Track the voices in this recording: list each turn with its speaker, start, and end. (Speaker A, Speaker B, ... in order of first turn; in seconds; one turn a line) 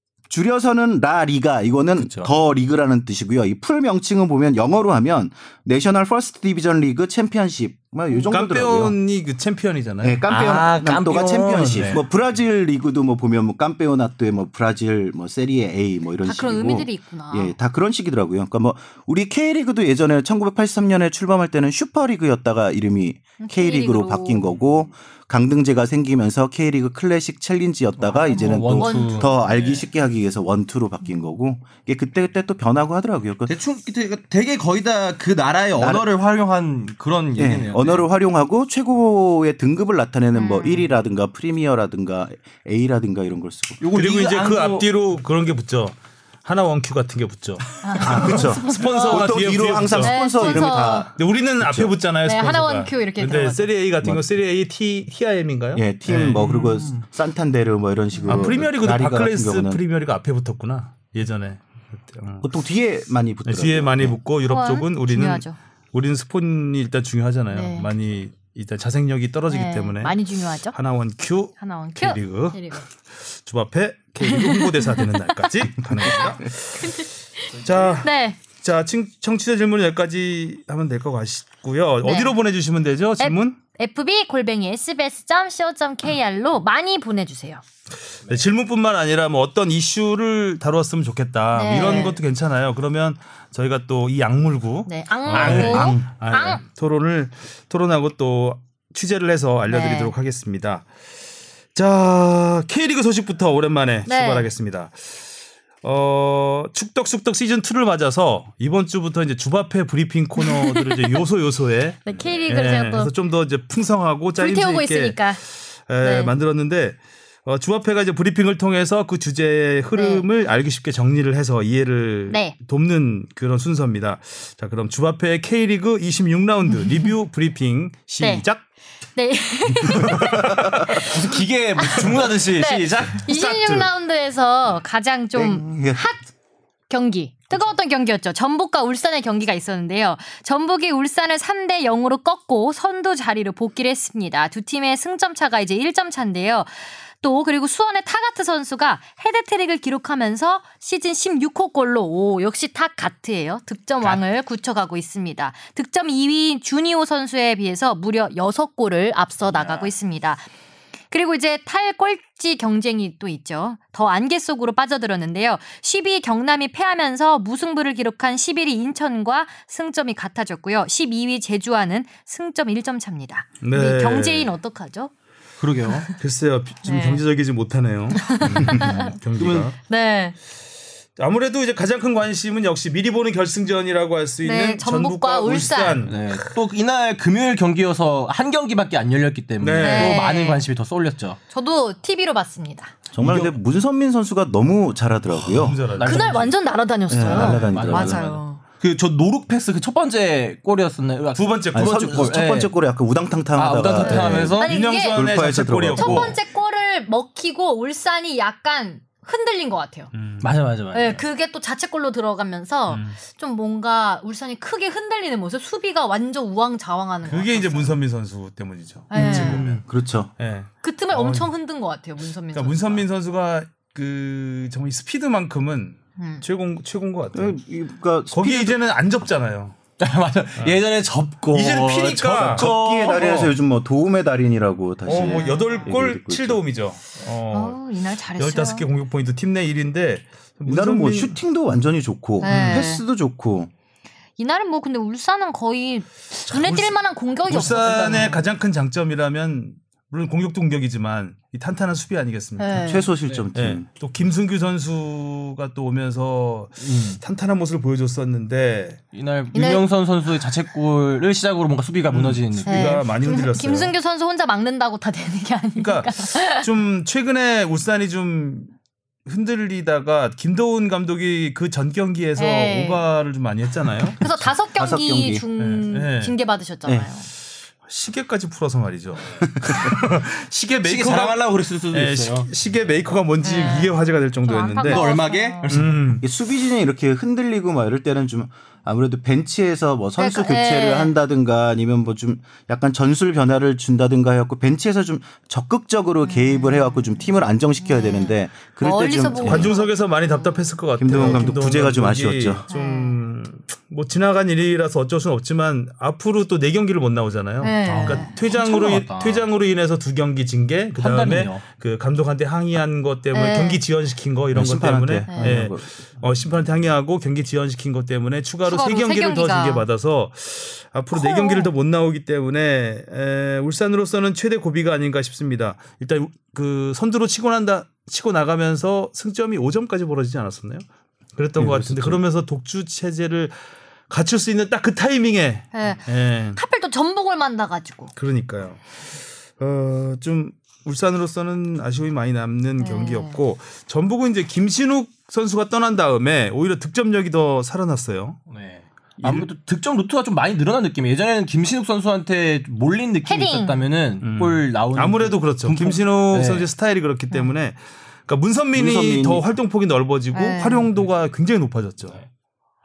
Speaker A: 0.3-8.9
Speaker B: 2.0-2.3
Speaker C: 8.3-10.2
Speaker A: 10.0-33.5
Speaker B: 10.3-12.0
Speaker C: 11.6-11.9
Speaker D: 16.2-17.5
Speaker D: 23.4-24.5
Speaker B: 28.0-29.9
Speaker D: 28.3-29.3
Speaker B: 33.5-38.0
Speaker A: 35.8-36.0
Speaker A: 37.4-43.8
Speaker D: 40.3-40.8
Speaker B: 43.8-44.9
Speaker C: 43.9-57.0
Speaker D: 47.8-49.2
Speaker A: 48.0-52.0
Speaker B: 48.2-49.8
Speaker D: 49.9-51.1
Speaker D: 52.2-53.7
Speaker A: 54.0-54.3
Speaker A: 55.7-59.8
Speaker D: 58.1-58.6
Speaker C: 58.3-62.5
Speaker A: 62.4-64.2
Speaker C: 63.5-70.2
Speaker D: 64.5-65.6
Speaker D: 67.5-67.9
Speaker D: 69.5-70.7
Speaker C: 70.7-83.6
Speaker D: 71.6-72.8
Speaker D: 74.2-75.3
Speaker D: 76.0-77.5
Speaker A: 76.0-76.5
Speaker B: 77.6-77.9
Speaker D: 78.0-78.4
Speaker D: 82.0-82.3
Speaker D: 83.2-87.6
Speaker C: 88.3-100.9
Speaker D: 91.5-92.2
Speaker D: 94.8-96.6
Speaker B: 95.3-96.0
Speaker D: 99.7-100.1
Speaker C: 101.7-105.0
Speaker D: 104.0-104.5
Speaker C: 105.8-115.3
Speaker D: 110.4-111.2
Speaker D: 112.0-113.1
Speaker D: 114.4-115.4
Speaker C: 115.9-128.6
Speaker D: 116.0-116.3
Speaker D: 119.9-120.2
Speaker D: 122.3-122.5
Speaker D: 126.8-127.0
Speaker D: 128.2-128.4
Speaker D: 129.1-131.1
Speaker C: 129.9-130.7
Speaker A: 130.2-131.0
Speaker B: 130.9-133.2
Speaker D: 131.8-136.2
Speaker C: 133.2-133.9
Speaker A: 135.3-136.1
Speaker D: 136.9-160.5
Speaker B: 159.5-159.9
Speaker D: 161.1-175.1
Speaker C: 173.6-174.5
Speaker B: 175.6-176.1
Speaker D: 175.9-176.1
Speaker C: 176.2-179.7
Speaker D: 176.8-177.2
Speaker D: 178.1-179.1
Speaker B: 179.4-179.7
Speaker D: 179.8-180.3
Speaker C: 181.2-186.4
Speaker D: 184.4-186.0
Speaker B: 186.0-191.4
Speaker C: 189.6-190.2
Speaker D: 189.8-190.6
Speaker D: 191.5-192.9
Speaker A: 193.1-195.8
Speaker B: 193.2-193.5
Speaker B: 195.5-196.4
Speaker C: 195.5-196.5
Speaker D: 196.0-198.6
Speaker A: 197.1-198.2
Speaker B: 197.2-202.7
Speaker C: 201.3-202.2
Speaker A: 201.7-206.4
Speaker B: 203.5-204.7
Speaker D: 204.0-205.3
Speaker C: 204.6-206.4
Speaker D: 205.9-210.1
Speaker C: 210.1-210.5
Speaker B: 210.4-211.2
Speaker D: 210.9-218.0
Speaker C: 212.9-213.2
Speaker C: 217.2-219.8
Speaker D: 219.1-219.7
Speaker A: 219.1-220.3
Speaker B: 219.5-219.8
Speaker C: 220.4-221.5
Speaker D: 220.8-223.0
Speaker C: 222.5-227.6
Speaker D: 226.2-226.4
Speaker A: 227.3-228.8
Speaker C: 228.3-229.8
Speaker B: 230.0-233.5
Speaker C: 231.5-233.5
Speaker A: 232.3-236.6
Speaker C: 235.0-237.8
Speaker D: 235.1-235.9
Speaker D: 237.5-238.8
Speaker C: 238.3-241.3
Speaker A: 240.7-243.7
Speaker D: 242.4-243.0
Speaker C: 242.4-242.8
Speaker D: 244.4-248.4
Speaker C: 246.5-252.8
Speaker B: 247.5-248.3
Speaker D: 252.6-253.1
Speaker A: 252.7-253.9
Speaker C: 253.5-259.0
Speaker B: 256.8-257.2
Speaker B: 259.1-263.0
Speaker D: 259.5-259.9
Speaker C: 262.1-263.9
Speaker D: 262.6-266.7
Speaker C: 265.8-268.7
Speaker C: 269.2-274.3
Speaker D: 272.4-273.0
Speaker D: 274.1-277.3
Speaker A: 274.7-275.4
Speaker C: 275.6-276.3
Speaker C: 277.8-281.4
Speaker A: 279.5-280.0
Speaker B: 280.8-282.5
Speaker C: 281.9-286.2
Speaker D: 283.4-285.7
Speaker B: 284.8-285.9
Speaker A: 286.2-299.7
Speaker D: 290.2-291.1
Speaker D: 296.2-297.3
Speaker D: 297.8-301.6
Speaker C: 299.4-330.8
Speaker A: 301.0-302.6
Speaker D: 302.7-303.2
Speaker D: 307.6-308.3
Speaker B: 307.8-309.5
Speaker B: 310.9-311.6
Speaker D: 313.3-313.8
Speaker A: 314.5-315.9
Speaker D: 315.3-315.6
Speaker D: 318.6-319.8
Speaker D: 321.1-321.7
Speaker C: 331.4-333.5
Speaker A: 331.6-332.2
Speaker C: 334.1-336.6
Speaker D: 335.7-338.1
Speaker C: 338.1-338.9
Speaker C: 339.6-348.4
Speaker D: 342.8-343.4
Speaker B: 348.5-356.7
Speaker C: 349.2-349.5
Speaker D: 353.2-353.8
Speaker C: 354.2-362.2
Speaker A: 358.7-359.5
Speaker D: 360.3-360.9